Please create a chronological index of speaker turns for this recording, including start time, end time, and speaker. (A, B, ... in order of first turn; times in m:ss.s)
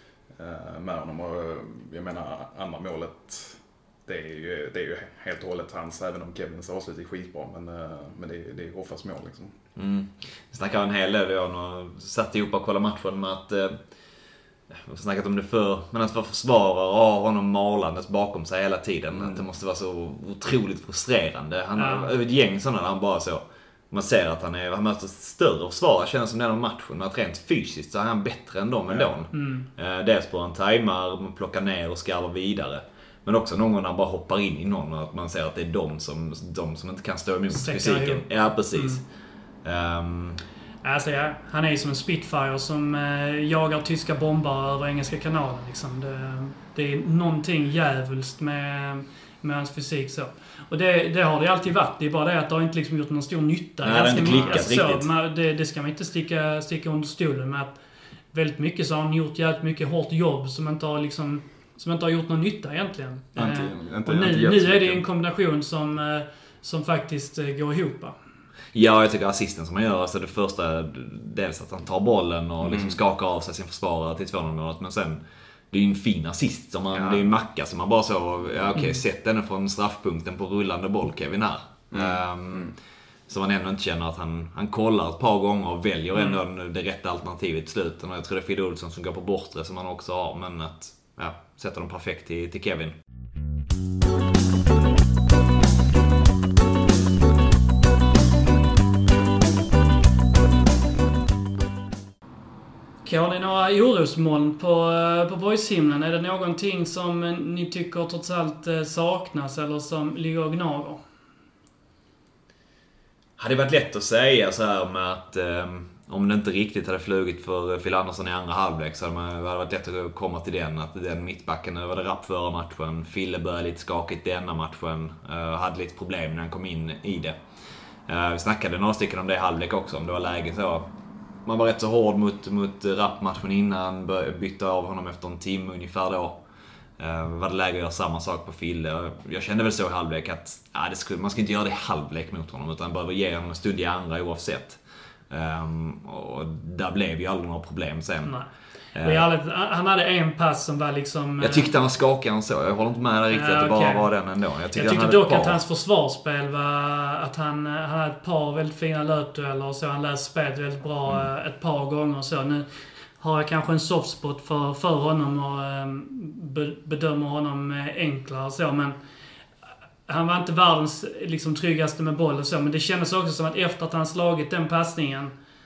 0:00.3-0:09.6 A
0:09.8-0:13.8 B
0:14.7-0:39.0 B
0:19.1-0:19.4 A
0:21.8-0:22.1 C
0:29.3-0:29.7 C
0:37.5-0:39.0 C
0:39.6-0:40.4 B
0:40.8-0:57.7 C
0:53.8-0:55.1 B
0:54.2-0:54.6 A
0:58.3-1:08.2 C
1:03.3-1:05.0 A
1:08.7-1:15.2 B
1:12.6-1:13.0 A
1:15.7-1:22.7 B
1:16.9-1:17.3 A
1:21.9-1:22.7 A
1:23.3-1:32.9 B
1:43.0-1:51.0 C
1:53.4-2:10.9 B
2:11.4-2:16.4 B
2:17.0-2:28.4 B
2:28.2-2:31.7 C
2:28.9-2:29.3 B
2:31.4-2:35.6 B
2:33.3-2:34.1 C
2:34.7-2:42.7 C
2:43.2-2:49.0 C
2:50.1-2:55.3 C